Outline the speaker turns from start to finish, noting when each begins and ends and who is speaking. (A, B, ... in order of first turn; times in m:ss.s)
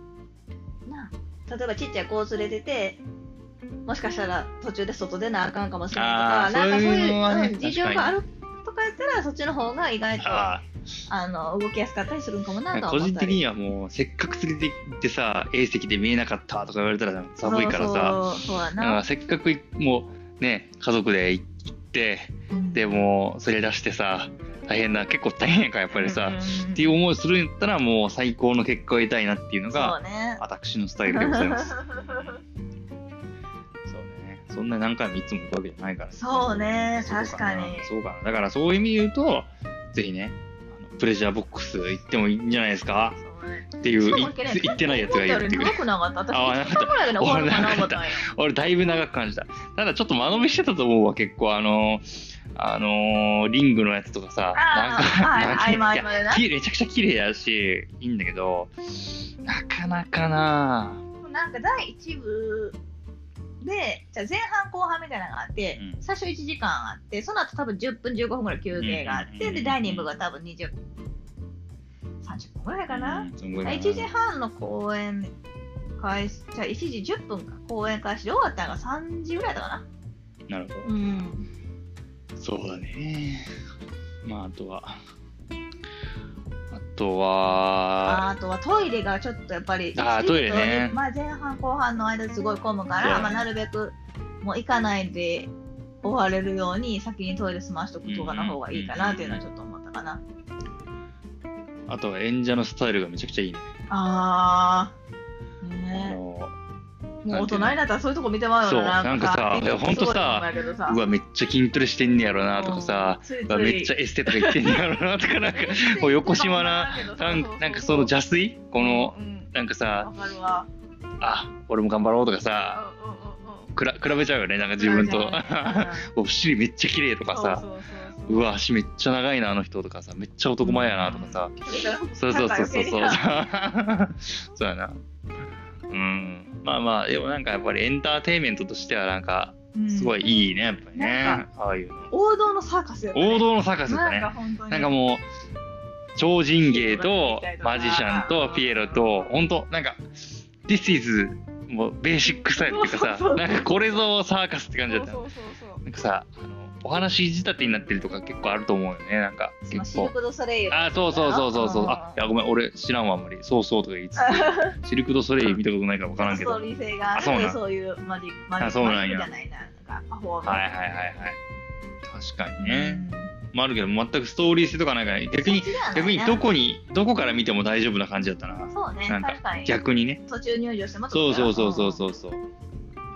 0:00.9-0:03.0 A
0:03.8-0:10.5 A
0:05.9-0:08.2 B
0:10.2-0:10.6 B
0:11.1-0:13.4 A
0:12.7-0:18.2 B
0:17.4-0:19.0 A
0:18.8-0:32.4 B
0:22.5-0:23.0 A
0:25.9-0:26.9 A
0:29.7-0:30.4 A
0:31.1-0:32.4 A
0:33.9-0:43.2 B
0:36.1-0:37.9 A
0:43.2-0:48.2 A
0:43.8-1:01.0 B
0:54.5-0:56.4 A
1:01.2-1:02.8 A
1:03.6-1:10.7 A
1:08.7-1:10.1 B
1:12.2-1:15.3 A
1:12.9-1:14.1 B
1:16.0-1:19.8 A
1:20.5-1:20.9 B
1:20.8-1:21.5 A
1:22.4-1:23.5 B
1:24.2-1:25.0 B
1:26.7-1:28.2 B
1:28.0-1:35.5 A
1:29.9-1:31.0 B
1:33.0-1:33.4 B
1:36.0-1:40.2 A
1:38.0-1:39.4 B
1:41.9-1:43.7 B
1:43.9-1:44.9 A
1:45.6-1:46.2 A
1:46.0-1:46.5 B
1:47.2-1:51.0 A
1:47.3-1:47.8 B
1:48.6-2:00.1 B
1:52.5-1:54.8 A
1:55.5-1:58.1 A
1:58.8-2:00.7 A
2:01.2-2:02.8 B
2:02.7-2:03.7 A
2:03.7-2:07.6 B
2:04.8-2:06.1 A
2:07.3-2:08.5 A
2:08.3-2:11.6 B
2:10.6-2:13.4 A
2:12.2-2:15.0 B
2:15.9-2:22.1 B
2:19.7-2:20.3 A
2:20.9-2:21.4 A
2:22.1-2:24.9 A
2:23.1-2:25.2 B
2:26.2-2:30.0 B
2:26.6-2:29.3 A
2:30.6-2:35.2 B
2:32.5-2:33.9 A
2:34.9-2:35.8 A
2:35.8-2:40.1 B
2:39.7-2:42.2 A
2:40.7-2:47.6 B
2:44.2-2:44.7 A
2:46.2-2:50.6 A
2:48.6-2:49.3 B
2:50.4-2:51.4 B
2:52.1-3:00.2 B
2:52.6-2:53.3 A
2:55.3-2:56.4 A
2:58.7-3:02.0 A
3:01.1-3:02.4 B